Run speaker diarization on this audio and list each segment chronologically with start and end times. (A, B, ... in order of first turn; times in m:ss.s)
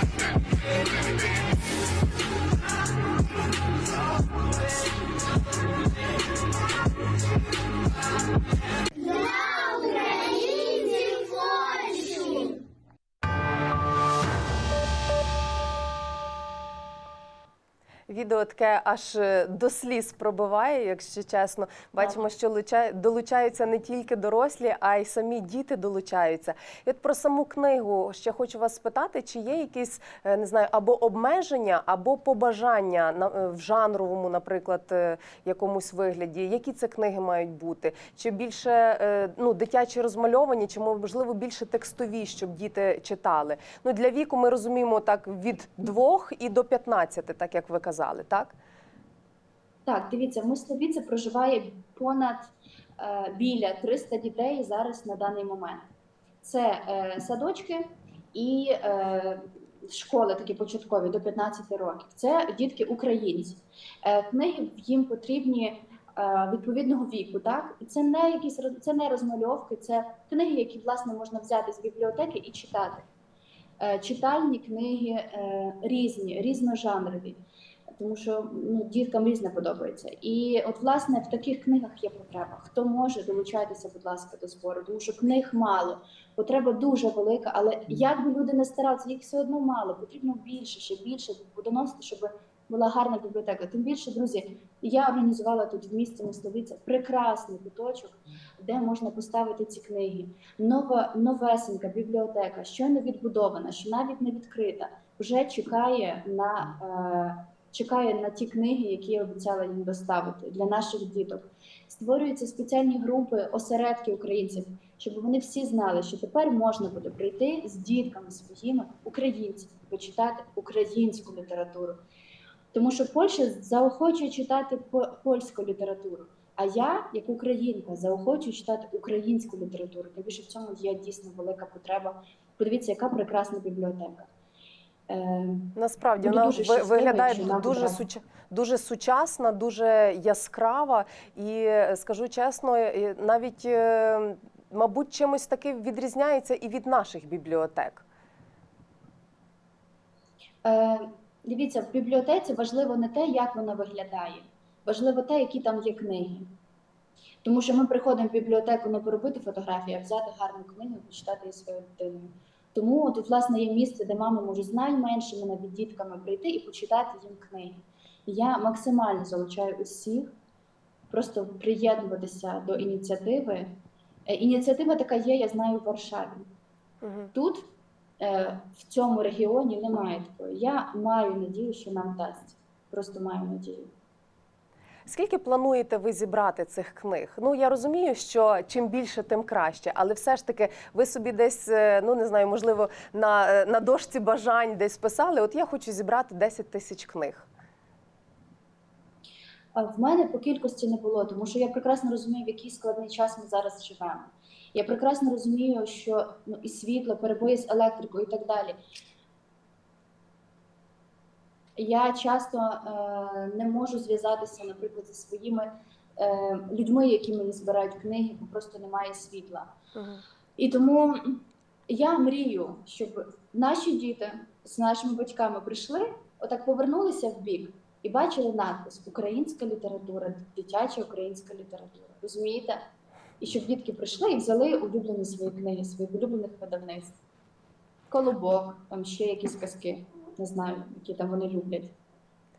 0:18.1-0:48.5 A
0:49.8-0:55.9 B
0:56.4-1:13.1 B
1:13.8-1:17.4 B
1:18.0-2:02.0 B
2:02.7-2:14.3 B
2:15.1-2:18.0 B
2:15.8-2:28.0 A
2:30.6-2:36.5 B
2:37.4-2:50.3 B
2:51.1-2:53.7 B
2:54.3-2:56.5 B
2:57.0-2:57.3 A
2:57.3-2:57.6 B
2:58.2-3:03.9 B
3:05.1-3:17.5 A
3:19.7-3:28.8 B
3:31.8-3:39.7 B
3:39.9-3:40.2 A
3:40.6-3:52.8 B
3:53.4-3:57.2 B
3:58.1-4:01.9 B